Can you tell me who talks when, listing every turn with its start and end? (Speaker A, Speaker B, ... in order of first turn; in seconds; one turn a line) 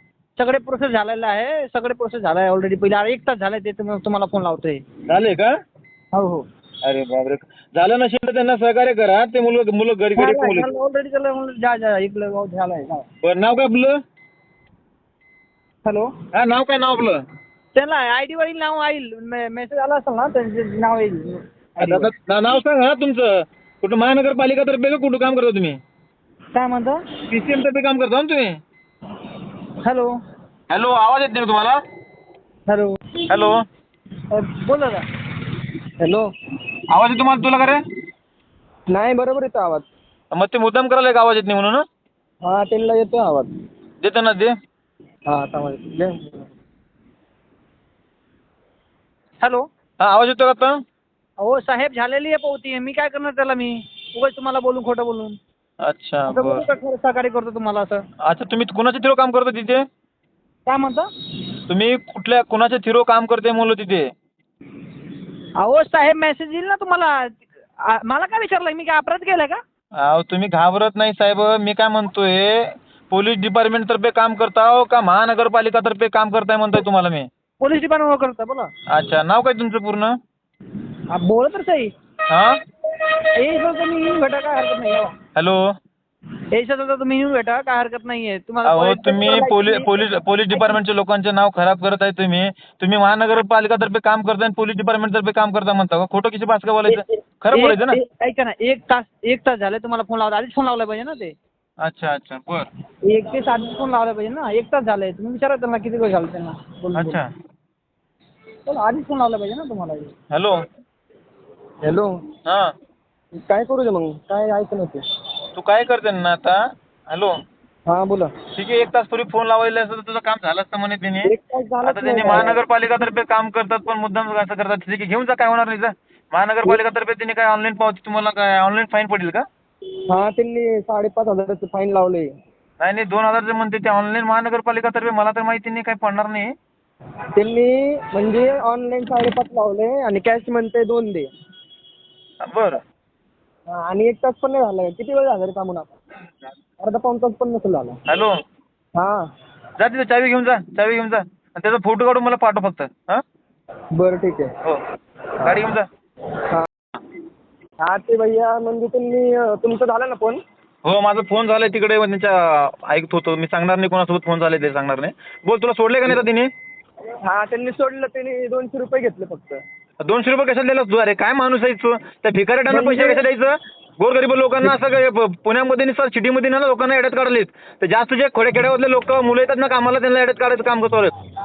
Speaker A: 0.4-4.8
Speaker B: 5.1-5.5
Speaker A: 6.1-6.4
Speaker B: 6.8-10.7
Speaker A: 10.2-13.1
Speaker B: 13.2-14.0
Speaker A: 15.8-16.1
Speaker B: 16.3-17.2
Speaker A: 17.7-22.1
Speaker B: 21.8-25.8
Speaker A: 26.5-27.0
Speaker B: 27.3-28.6
Speaker A: 29.8-30.1
Speaker B: 30.7-31.8
Speaker A: 32.7-32.9
Speaker B: 33.3-33.6
Speaker A: 34.3-35.0
Speaker C: 36.0-36.3
Speaker B: 36.9-37.8
Speaker C: 38.9-39.9
Speaker B: 40.3-41.8
Speaker C: 42.4-43.5
Speaker B: 44.0-44.5
Speaker C: 45.3-46.5
Speaker A: 49.4-49.7
Speaker B: 50.0-50.8
Speaker A: 51.4-55.4
Speaker B: 55.8-56.6
Speaker A: 56.3-58.0
Speaker B: 58.2-59.8
Speaker A: 60.6-61.1
Speaker B: 61.7-64.1
Speaker A: 65.6-69.6
Speaker B: 70.0-77.3
Speaker A: 77.6-78.7
Speaker B: 78.9-80.2
Speaker A: 81.1-81.9
Speaker B: 82.3-82.6
Speaker A: 83.0-85.1
Speaker B: 85.3-85.7
Speaker A: 86.5-90.8
Speaker B: 88.6-98.0
Speaker A: 96.9-101.3
Speaker B: 101.8-102.7
Speaker A: 103.1-107.2
Speaker B: 106.9-107.3
Speaker A: 108.7-110.1
Speaker B: 110.3-110.6
Speaker C: 111.8-112.1
Speaker B: 112.5-112.7
Speaker C: 113.3-115.0
Speaker B: 115.5-116.6
Speaker B: 117.1-117.3
Speaker C: 117.9-118.3
Speaker B: 118.5-129.4
Speaker C: 121.2-122.6
Speaker C: 130.1-132.3
Speaker B: 132.8-136.5
Speaker C: 137.3-141.3
Speaker B: 142.4-142.8
Speaker C: 143.7-145.9
Speaker C: 146.8-148.0
Speaker B: 148.1-148.3
Speaker B: 149.8-153.2
Speaker C: 153.9-154.5
Speaker B: 155.4-155.9
Speaker C: 157.8-160.4
Speaker B: 160.8-166.5
Speaker C: 167.2-169.6
Speaker B: 170.0-181.1
Speaker C: 172.7-173.2